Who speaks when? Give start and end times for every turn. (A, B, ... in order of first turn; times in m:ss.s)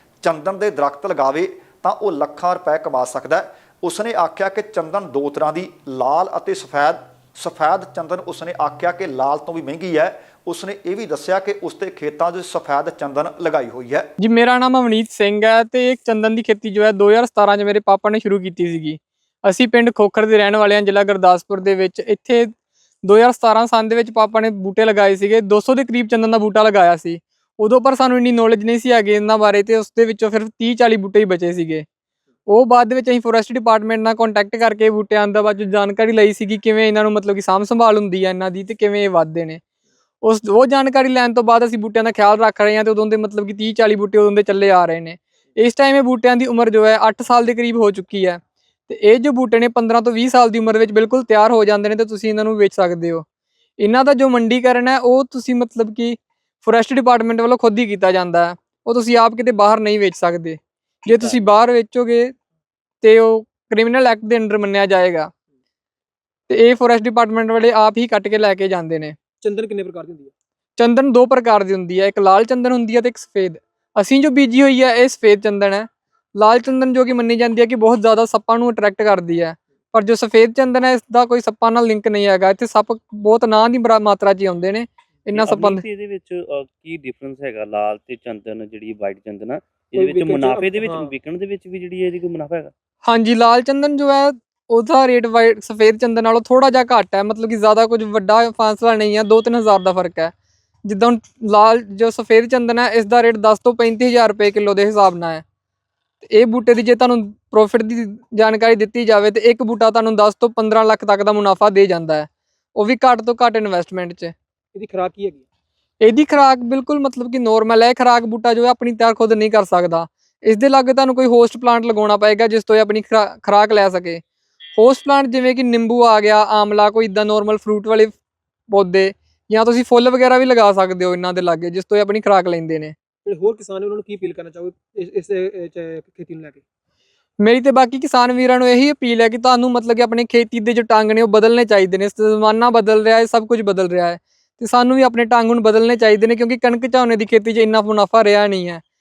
0:00.2-0:14.1 A
0:14.2-0:22.5 B
0:23.1-0:31.8 B
0:32.5-0:39.6 B
0:40.2-0:53.2 B
0:53.8-1:02.3 B
1:01.1-1:01.4 C
1:03.0-1:05.3 B
1:06.5-1:09.2 B
1:09.4-1:10.3 C
1:10.8-1:25.8 B
1:25.3-1:32.7 D
1:30.0-1:31.1 C
1:33.1-1:40.3 B
1:40.9-1:45.4 B
1:46.3-1:54.3 B
1:54.8-1:55.5 C
1:56.0-2:04.2 B
2:04.8-2:08.2 B
2:08.7-2:12.9 B
2:13.3-2:16.6 C
2:17.4-2:28.8 B